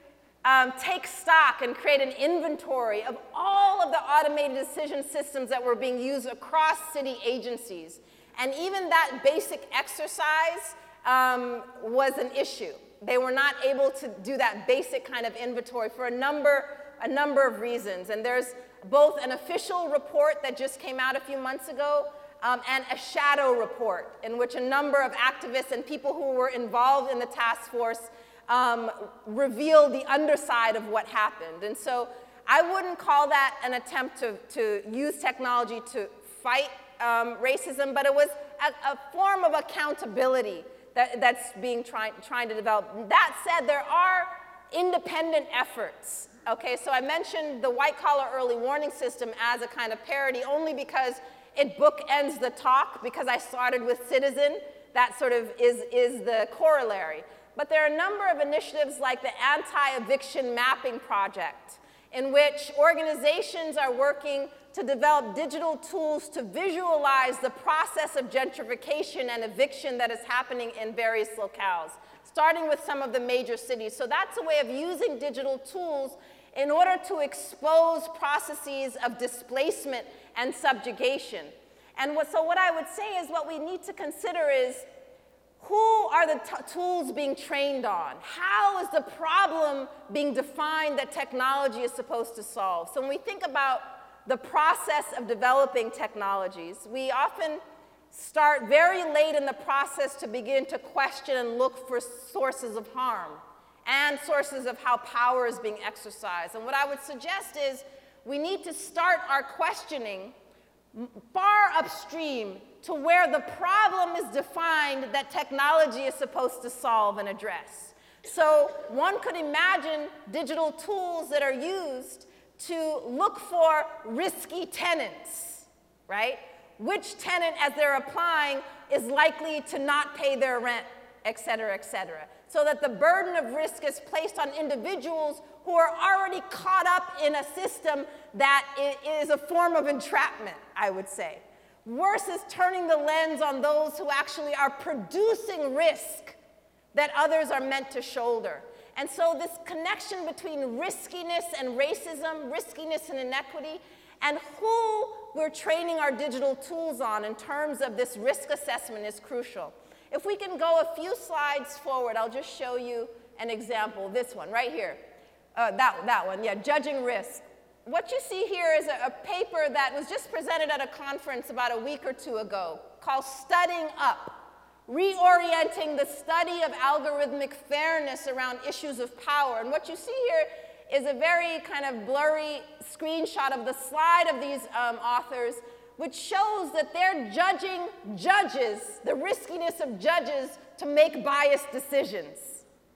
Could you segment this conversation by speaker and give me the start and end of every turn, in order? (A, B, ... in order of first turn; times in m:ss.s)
0:00.4-1:24.9 A
1:25.6-1:50.3 A
1:50.9-2:26.4 A
2:26.9-2:45.0 A
2:45.6-3:12.6 A